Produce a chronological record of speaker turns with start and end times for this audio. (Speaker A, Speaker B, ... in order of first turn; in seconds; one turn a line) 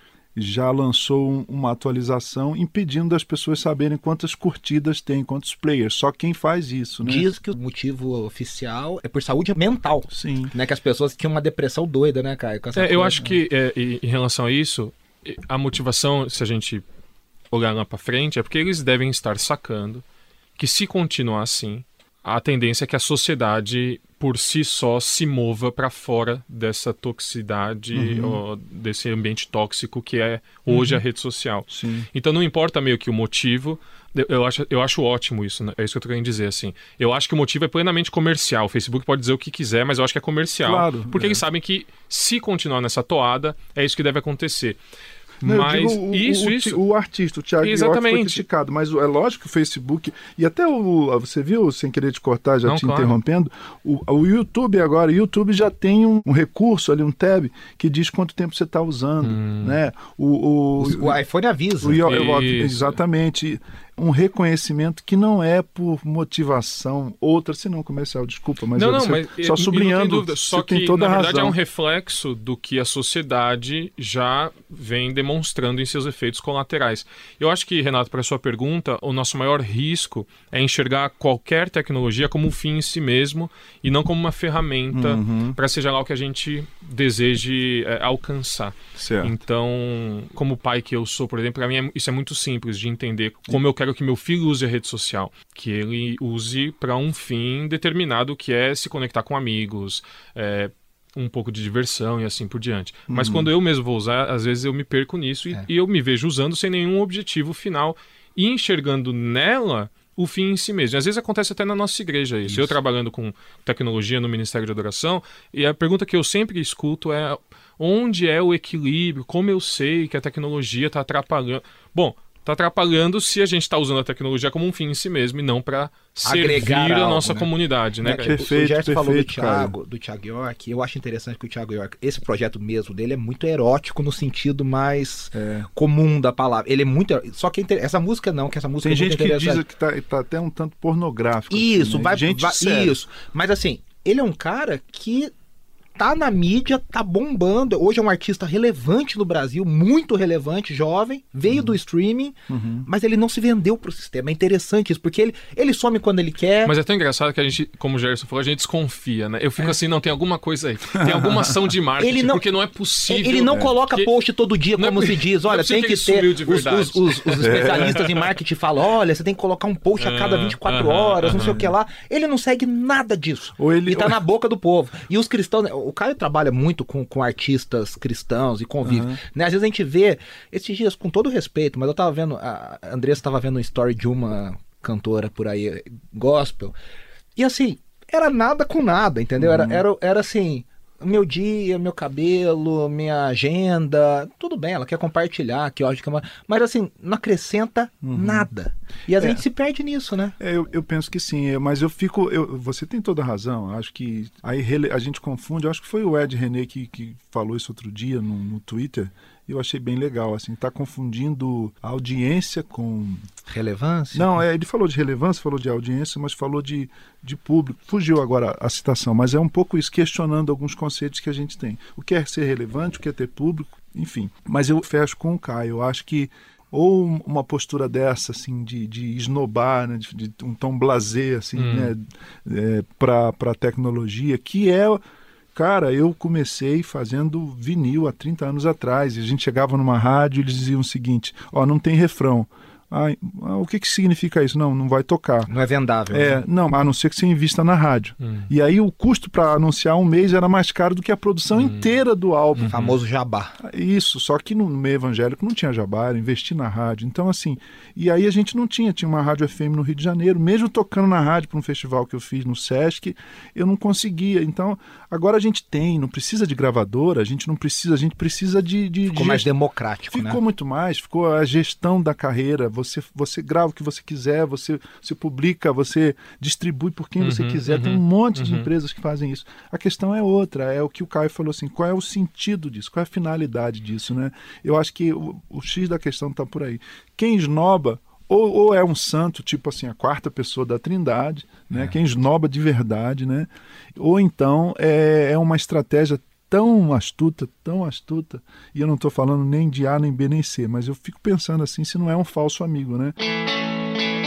Speaker A: 0.3-7.3
Speaker B: 7.0-13.3
Speaker A: 10.1-10.5
Speaker C: 12.7-16.8
Speaker C: 17.5-20.0
Speaker C: 20.6-44.8
Speaker A: 27.9-28.4
Speaker A: 30.7-31.0
Speaker A: 31.7-32.1
Speaker A: 40.6-41.4
Speaker C: 45.4-46.8
Speaker A: 45.4-61.2
Speaker C: 47.6-48.4
Speaker C: 52.6-53.1
Speaker C: 59.2-59.8
Speaker B: 60.8-62.0
Speaker A: 61.8-71.5
Speaker C: 62.0-63.0
Speaker C: 68.7-128.4
Speaker A: 84.9-85.6
Speaker A: 89.0-89.3
Speaker A: 103.1-103.5
Speaker B: 126.2-127.5
Speaker B: 128.1-139.6
Speaker A: 128.2-129.8
Speaker A: 135.3-135.7
Speaker A: 138.8-143.0
Speaker B: 141.5-145.3
Speaker B: 146.0-156.7
Speaker A: 151.5-151.7
Speaker A: 152.5-152.9
Speaker C: 156.6-164.1
Speaker A: 161.0-161.5
Speaker B: 162.0-162.4
Speaker B: 163.1-186.7
Speaker A: 163.4-163.7
Speaker C: 164.8-168.3
Speaker A: 167.4-168.0
Speaker C: 170.0-171.5
Speaker A: 171.3-171.7
Speaker A: 173.6-174.2
Speaker A: 178.8-179.2
Speaker B: 187.3-200.3
Speaker A: 189.4-189.8
Speaker A: 198.0-198.5
Speaker A: 199.2-199.4
Speaker A: 200.4-213.3
Speaker B: 213.5-214.3
Speaker A: 214.1-235.0
Speaker C: 231.6-231.9
Speaker A: 235.5-245.5
Speaker B: 245.5-246.4
Speaker A: 246.1-252.8
Speaker C: 248.2-248.5
Speaker C: 251.5-251.9
Speaker C: 252.6-252.9
Speaker B: 252.7-253.5
Speaker A: 253.6-269.5
Speaker B: 269.1-270.4
Speaker A: 270.1-303.1
Speaker C: 277.2-278.7